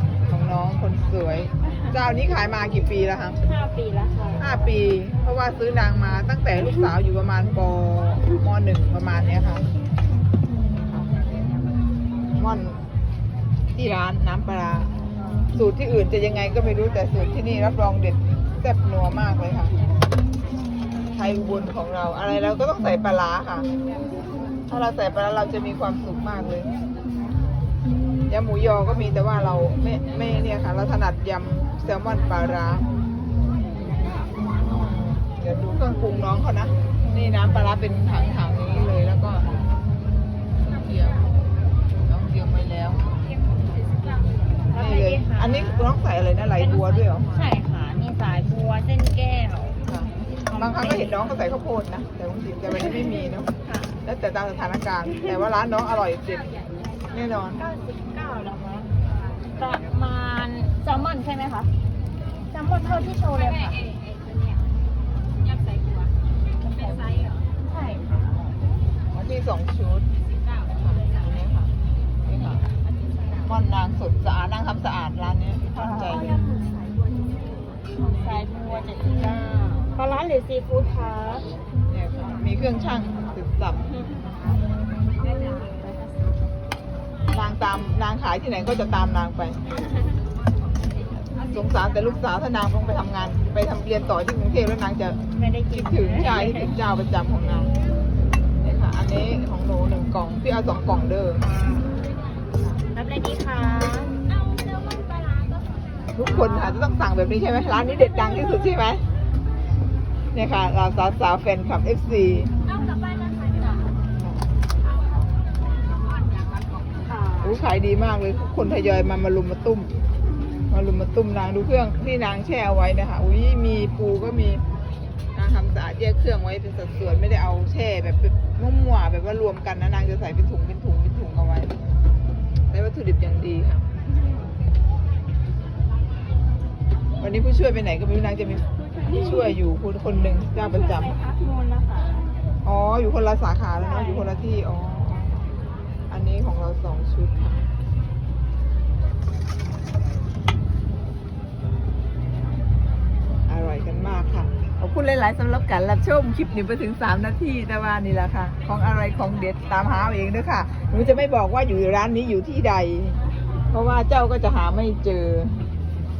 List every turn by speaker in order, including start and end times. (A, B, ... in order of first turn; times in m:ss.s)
0:00.3-0:03.4 A
0:03.4-0:04.5 B
0:04.4-0:09.7 A
0:12.3-0:12.8 A
0:13.7-0:14.9 A
0:15.5-0:19.8 A
0:21.1-0:23.7 A
0:24.7-0:26.7 A
0:28.3-0:32.8 A
0:34.6-0:39.5 A
0:40.6-0:41.2 A
0:42.0-0:43.1 A
0:44.7-0:45.9 B
0:44.7-0:47.3 A
0:46.6-0:49.8 B
0:49.9-0:53.5 A
0:50.4-0:51.3 B
0:53.6-0:54.0 B
0:54.0-0:56.5 A
0:57.1-0:57.6 A
0:57.5-0:58.9 B
0:59.6-1:01.7 B
1:02.5-1:03.8 B
1:06.6-1:08.6 B
1:09.1-1:10.1 A
1:10.7-1:11.7 A
1:12.2-1:12.6 A
1:13.4-1:16.3 A
1:15.7-1:16.9 B
1:18.0-1:21.5 B
1:21.9-1:23.8 A
1:27.3-1:29.6 A
1:31.4-1:35.2 A
1:35.3-1:36.7 B
1:35.7-1:37.7 A
1:38.6-1:41.4 A
1:41.4-1:42.0 B
1:42.9-1:44.2 B
1:46.1-1:49.0 A
1:46.4-1:46.7 B
1:50.3-1:52.5 A
1:57.1-1:57.5 B
1:57.4-1:59.9 A
2:00.7-2:04.6 A
2:05.3-2:11.8 A
2:12.7-2:13.8 A
2:17.2-2:21.1 A
2:20.6-2:22.3 B
2:22.6-2:25.4 A
2:23.8-2:24.3 B
2:26.1-2:27.7 A
2:33.5-2:43.2 A
2:43.7-2:45.6 A